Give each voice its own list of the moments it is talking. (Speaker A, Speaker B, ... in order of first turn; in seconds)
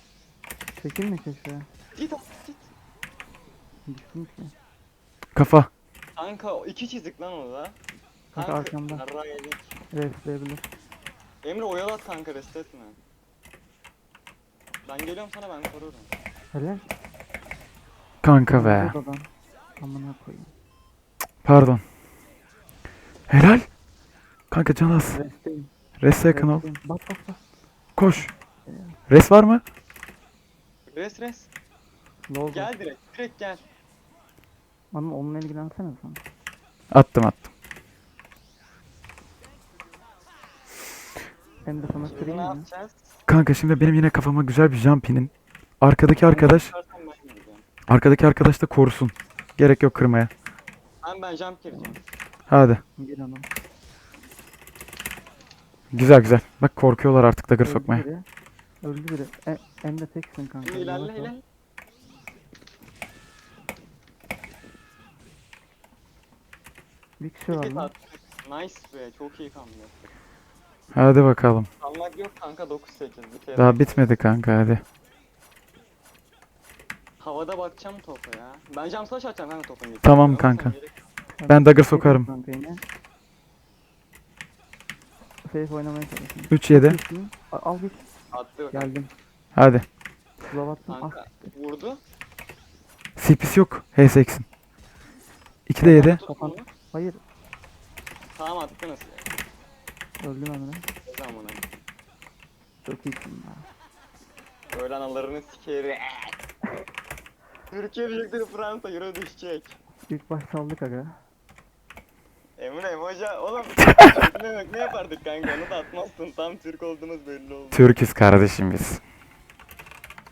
Speaker A: 0.8-1.6, 3.9-4.5, 8.3-9.0, 9.9-10.7, 16.5-16.9, 18.5-19.3, 19.8-20.5, 25.1-25.7, 26.3-27.4, 28.6-29.0, 32.3-32.7, 34.9-36.2, 41.6-42.7, 53.0-53.5, 57.6-58.2, 58.8-61.3, 67.2-67.9, 81.4-82.8, 85.4-88.1, 88.7-89.1, 90.5-91.5, 95.8-97.2, 100.2-100.9, 102.8-103.7, 110.1-111.2
Speaker B: 1.9-2.7, 6.2-7.8, 8.3-9.8, 11.4-13.0, 14.8-16.1, 30.9-31.5, 32.5-33.6, 41.8-43.2, 46.2-47.6, 51.0-52.0, 60.6-61.4, 67.5-70.0, 71.8-74.1, 77.2-81.1, 88.3-88.9, 90.9-92.0, 95.8-96.7, 98.3-99.3, 101.0-101.6, 104.7-106.4, 107.7-109.8, 112.6-118.0
Speaker C: 5.3-5.7, 18.2-18.9, 21.4-21.8, 23.3-23.7, 24.5-25.2, 26.0-26.6, 27.9-28.3, 29.1-29.6, 36.9-37.5, 43.3-46.7, 47.9-50.3, 52.5-52.8, 55.9-58.0, 70.9-71.7, 73.5-74.8, 80.0-80.8, 81.5-82.3, 86.5-87.0, 89.5-89.8, 93.2-94.5, 95.7-96.2, 117.7-119.0